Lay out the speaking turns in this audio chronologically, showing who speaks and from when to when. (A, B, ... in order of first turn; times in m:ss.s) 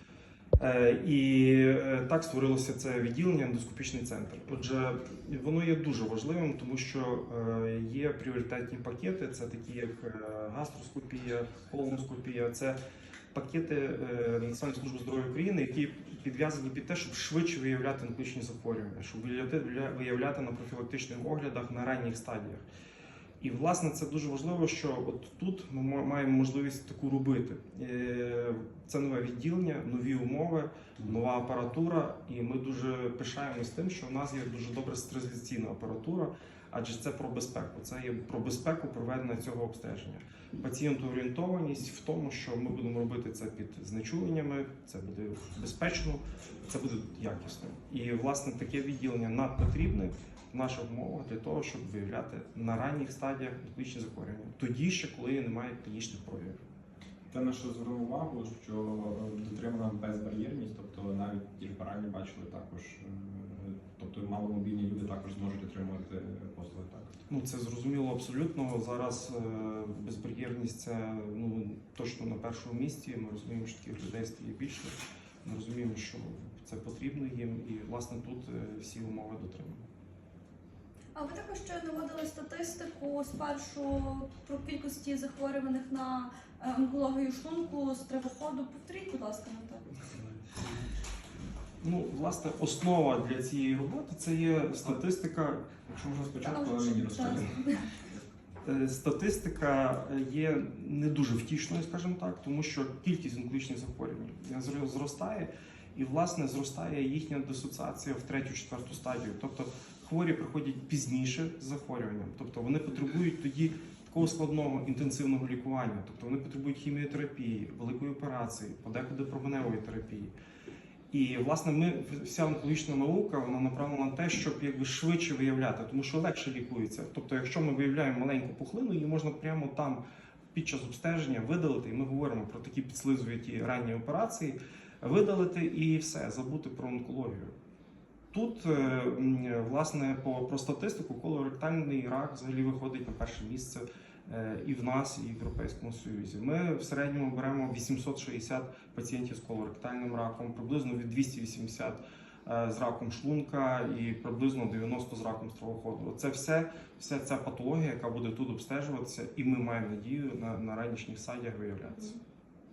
0:00.6-0:12.8 A
0:13.3-0:22.6 A
0:23.4-0:56.6 A
0:57.3-1:07.2 B
1:07.3-1:19.8 A
1:21.1-1:29.9 C
1:30.2-1:30.6 B
1:31.8-1:35.9 A
1:35.9-1:37.6 B
1:36.4-1:37.8 C
1:38.6-2:00.3 A
2:01.1-2:10.0 A
2:10.5-2:17.5 A
2:18.3-2:42.2 A